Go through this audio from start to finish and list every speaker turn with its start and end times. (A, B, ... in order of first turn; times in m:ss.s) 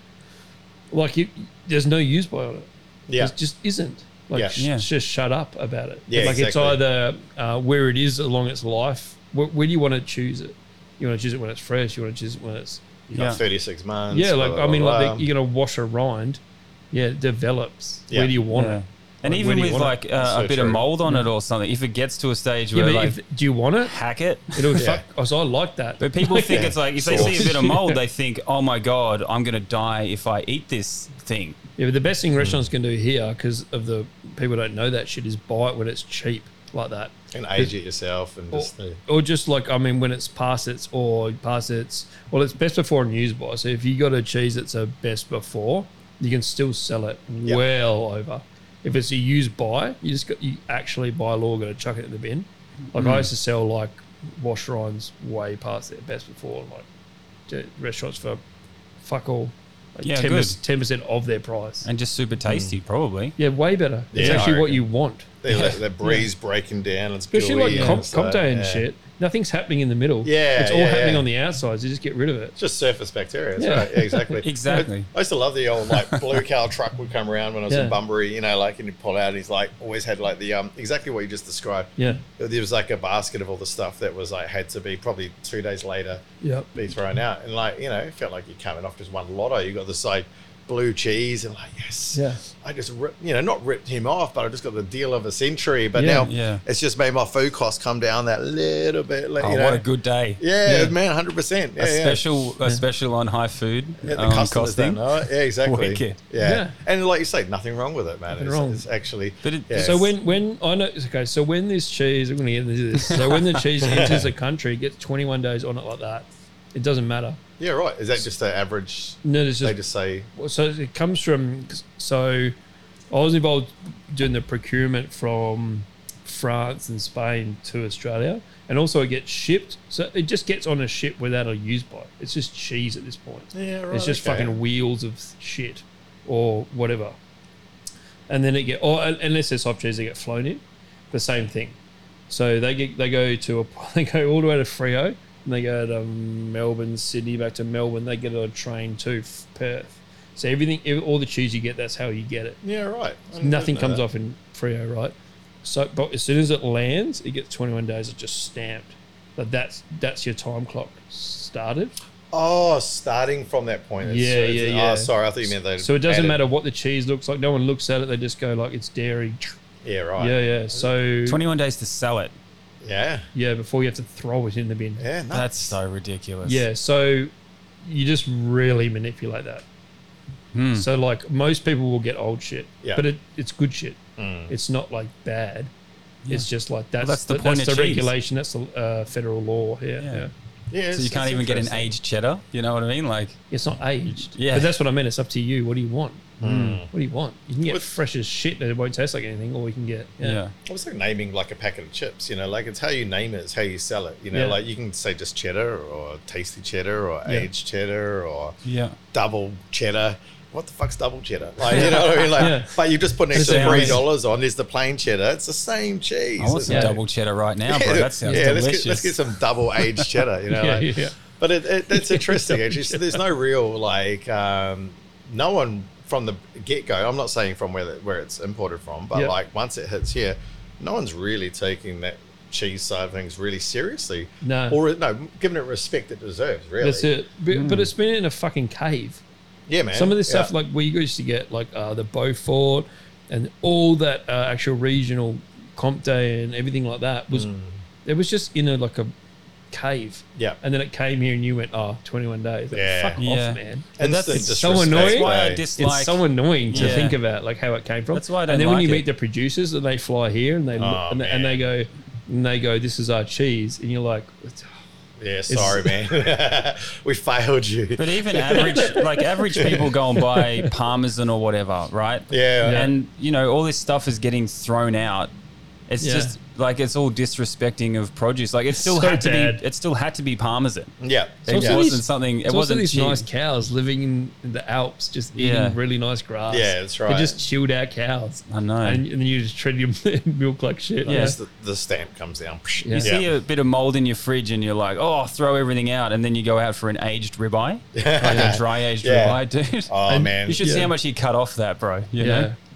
0:00.9-0:13.0 A
0:03.1-0:03.3 B
0:04.3-0:04.6 B
0:04.6-0:04.8 C
0:06.1-0:06.8 B
0:13.1-0:15.3 B
0:13.1-0:13.4 C
0:14.1-0:19.9 A
0:18.5-0:23.2 C
0:20.2-0:20.8 B
0:22.7-0:24.0 A
0:23.8-0:24.8 C
0:24.5-0:28.0 A
0:24.8-0:25.0 B
0:26.0-0:31.6 C
0:26.5-0:27.5 B
0:31.8-0:37.7 A
0:32.4-0:32.6 B
0:37.3-0:39.0 B
0:38.5-0:56.8 A
0:53.0-0:53.3 C
0:57.5-0:58.4 A
0:59.0-1:01.9 A
1:00.0-1:00.6 C
1:01.8-1:03.4 C
1:02.5-1:02.8 B
1:03.4-1:06.2 A
1:04.1-1:04.8 B
1:04.2-1:04.5 C
1:05.4-1:08.8 B
1:07.3-1:12.5 A
1:07.7-1:08.0 C
1:10.2-1:11.2 B
1:12.6-1:26.2 B
1:13.6-1:14.4 A
1:14.4-1:15.1 C
1:17.7-1:18.0 A
1:22.0-1:22.2 A
1:26.4-1:26.7 A
1:26.7-1:39.8 B
1:32.1-1:32.4 A
1:35.9-1:36.3 A
1:36.1-1:36.6 C
1:39.4-1:40.4 C
1:40.4-1:42.2 B
1:40.6-1:40.9 A
1:41.8-1:46.2 C
1:44.0-1:50.1 B
1:46.4-1:46.7 A
1:48.3-1:48.8 A
1:49.4-1:50.0 C
1:49.7-1:57.4 A
1:53.1-1:53.6 C
1:53.8-1:54.3 B
1:57.6-2:00.3 B
1:59.2-1:59.8 A
2:00.3-2:02.5 A
2:03.1-2:17.2 A
2:13.5-2:14.6 B
2:18.3-2:21.8 A
2:22.3-2:32.6 A
2:32.6-2:34.0 B
2:33.4-2:42.0 A
2:42.3-2:46.4 B
2:44.0-2:45.1 A
2:45.8-2:49.5 A
2:49.8-2:50.8 B
2:50.2-2:51.4 A
2:51.2-2:52.3 C
2:52.8-2:53.3 B
2:53.3-2:55.0 A
2:55.0-2:55.7 B
2:55.3-2:56.6 C
2:56.4-2:57.3 A
2:57.8-2:59.6 A
3:00.5-3:00.8 C
3:00.7-3:05.7 A
3:04.2-3:04.5 B
3:06.3-3:10.3 A
3:07.0-3:08.1 C
3:10.0-3:10.2 C
3:10.7-3:11.9 B
3:10.9-3:13.4 C
3:13.5-3:20.4 A
3:14.1-3:14.7 C
3:16.4-3:16.9 B
3:16.4-3:16.8 C
3:17.6-3:17.9 B
3:20.2-3:20.5 C
3:20.6-3:28.5 B
3:24.3-3:24.6 A
3:28.6-3:29.0 C
3:29.1-3:36.9 B
3:31.7-3:32.7 A
3:31.7-3:32.5 C
3:33.3-3:34.0 A
3:33.3-3:34.0 C
3:36.4-3:39.2 C
3:36.7-3:37.0 A
3:37.7-3:57.1 B
3:38.2-3:38.6 A
3:40.5-3:41.1 A
3:41.9-3:43.2 A
3:54.4-3:54.8 A
3:56.8-3:59.2 A
3:57.5-3:57.9 C
3:59.7-4:00.5 B
3:59.9-4:07.5 A
4:07.3-4:07.8 B
4:08.0-4:09.1 A
4:09.7-4:24.7 A
4:12.7-4:13.2 B
4:13.2-4:17.2 C
4:14.0-4:15.6 B
4:16.7-4:17.1 B
4:18.1-4:19.0 C
4:20.8-4:21.6 B
4:25.2-4:29.0 B
4:25.5-4:26.0 A
4:28.0-4:35.3 C
4:28.6-4:29.0 A
4:29.5-4:29.9 B
4:30.3-4:30.7 A
4:32.3-4:32.9 B
4:32.6-4:32.9 A
4:35.9-4:40.9 C
4:36.0-4:36.3 A
4:38.7-4:39.6 A
4:41.0-4:41.8 B
4:41.4-4:43.2 C
4:41.5-4:51.4 A
4:45.3-4:45.8 C
4:46.5-4:47.4 B
4:48.5-4:49.0 C
4:51.0-4:53.2 B
4:51.1-4:51.4 C
4:52.8-4:53.1 A
4:52.9-5:02.5 C
4:57.9-5:00.7 B
4:58.2-4:58.5 A
5:00.1-5:00.9 A
5:02.2-5:02.6 A